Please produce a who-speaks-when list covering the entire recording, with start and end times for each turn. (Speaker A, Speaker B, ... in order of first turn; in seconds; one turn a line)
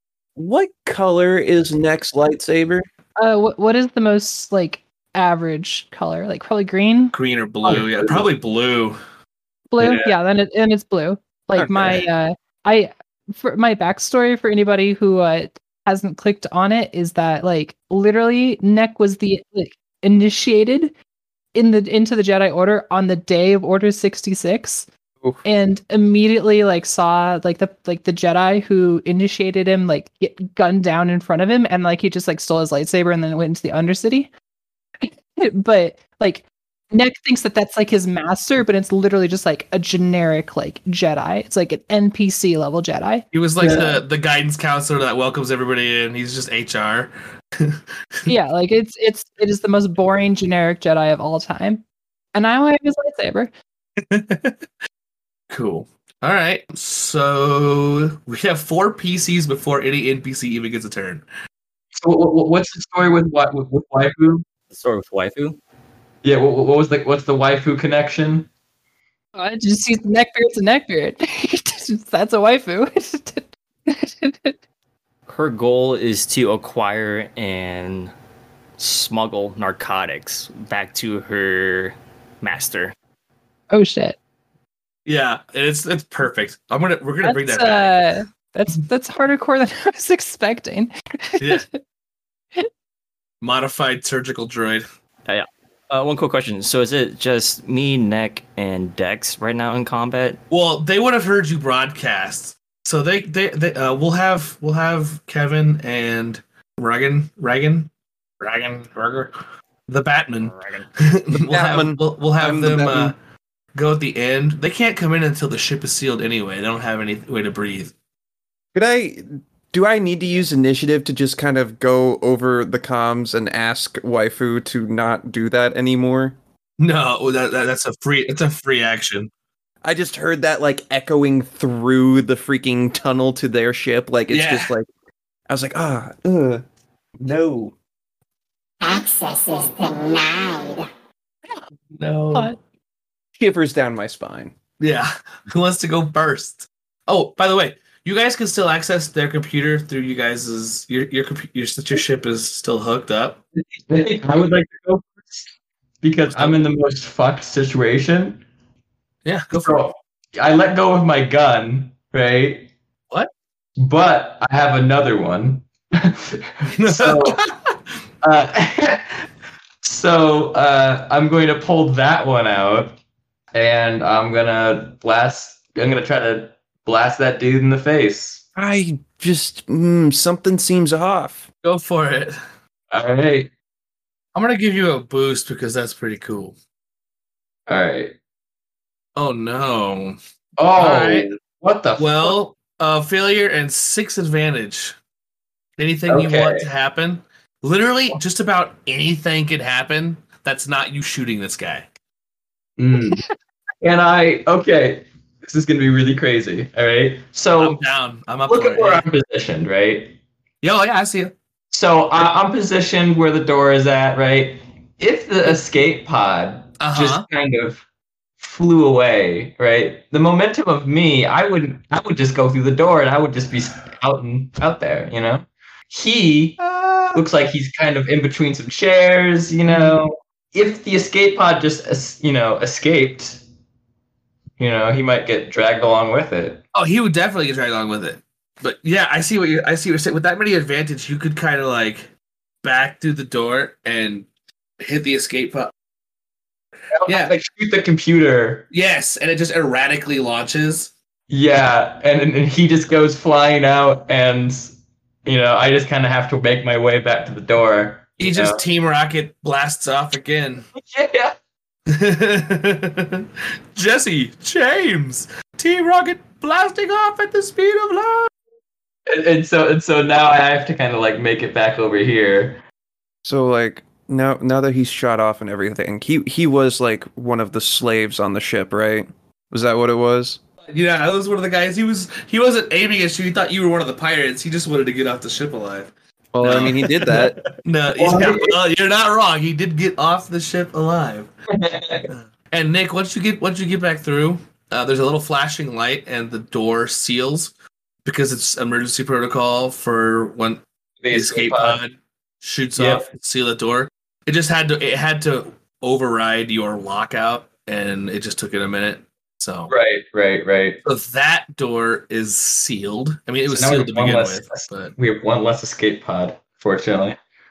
Speaker A: 0.4-2.9
Speaker B: 3.2-7.2
Speaker C: 7.1-9.0
Speaker B: 9.7-20.9
Speaker D: 9.8-10.1
Speaker A: 11.6-12.0
Speaker B: 21.5-24.9
Speaker B: 25.4-34.3
Speaker B: 35.0-43.3
Speaker C: 43.3-48.3
Speaker D: 43.6-44.0
Speaker B: 48.3-53.5
Speaker C: 54.0-54.6
Speaker C: 55.5-61.2
Speaker D: 62.0-64.5
Speaker E: 64.7-65.6
Speaker D: 66.2-68.5
Speaker B: 69.3-74.6
Speaker E: 75.3-78.1
Speaker E: 78.8-83.0
Speaker B: 83.7-84.2
Speaker C: 85.1-88.0
Speaker B: 87.2-91.8
Speaker C: 91.4-91.7
Speaker C: 93.4-94.9
Speaker E: 95.3-100.4
Speaker C: 100.5-109.3
Speaker C: 109.9-113.2
Speaker E: 110.4-110.8
Speaker A: 111.3-113.1
Speaker C: 113.7-117.9
Speaker A: 118.7-126.4
Speaker C: 126.8-129.3
Speaker A: 129.8-134.9
Speaker C: 134.3-134.7
Speaker A: 135.5-136.6
Speaker A: 137.2-137.8
Speaker F: 138.8-140.9
Speaker C: 141.9-142.6
Speaker A: 143.4-144.5
Speaker C: 144.8-153.4
Speaker D: 153.6-155.5
Speaker D: 156.0-158.4
Speaker C: 156.3-156.7
Speaker C: 159.2-159.9
Speaker D: 159.6-162.7
Speaker D: 163.8-167.4
Speaker C: 166.7-167.5
Speaker D: 168.2-169.2
Speaker D: 169.8-172.9
Speaker D: 173.5-178.4
Speaker A: 178.6-181.5
Speaker C: 181.6-182.4
Speaker D: 182.9-183.5
Speaker C: 184.3-186.6
Speaker D: 187.7-188.2
Speaker C: 189.2-190.2
Speaker D: 190.6-192.4
Speaker C: 190.8-191.3
Speaker C: 192.0-195.0
Speaker C: 195.8-201.9
Speaker D: 196.1-196.7
Speaker D: 202.8-203.2
Speaker D: 203.8-207.8
Speaker C: 207.6-209.1
Speaker D: 208.5-210.2
Speaker C: 210.6-211.3
Speaker D: 211.7-217.8
Speaker C: 216.8-217.3
Speaker D: 218.4-226.6
Speaker C: 226.6-227.2
Speaker D: 227.1-233.4
Speaker D: 234.6-236.6
Speaker C: 236.7-242.1
Speaker C: 242.6-244.3
Speaker C: 244.8-245.7
Speaker D: 246.9-248.7
Speaker C: 247.1-247.3
Speaker C: 248.7-250.9
Speaker D: 251.3-258.6
Speaker C: 258.2-260.7
Speaker D: 260.8-261.4
Speaker C: 261.9-268.3
Speaker D: 269.1-272.6
Speaker A: 273.2-280.4
Speaker C: 280.7-286.9
Speaker A: 286.3-287.4
Speaker D: 286.5-288.6
Speaker C: 287.6-291.3
Speaker D: 291.5-292.1
Speaker C: 292.1-297.5
Speaker C: 298.1-309.7
Speaker D: 301.0-301.8
Speaker D: 302.8-303.0
Speaker D: 309.7-310.8
Speaker C: 310.8-314.9
Speaker D: 313.5-317.2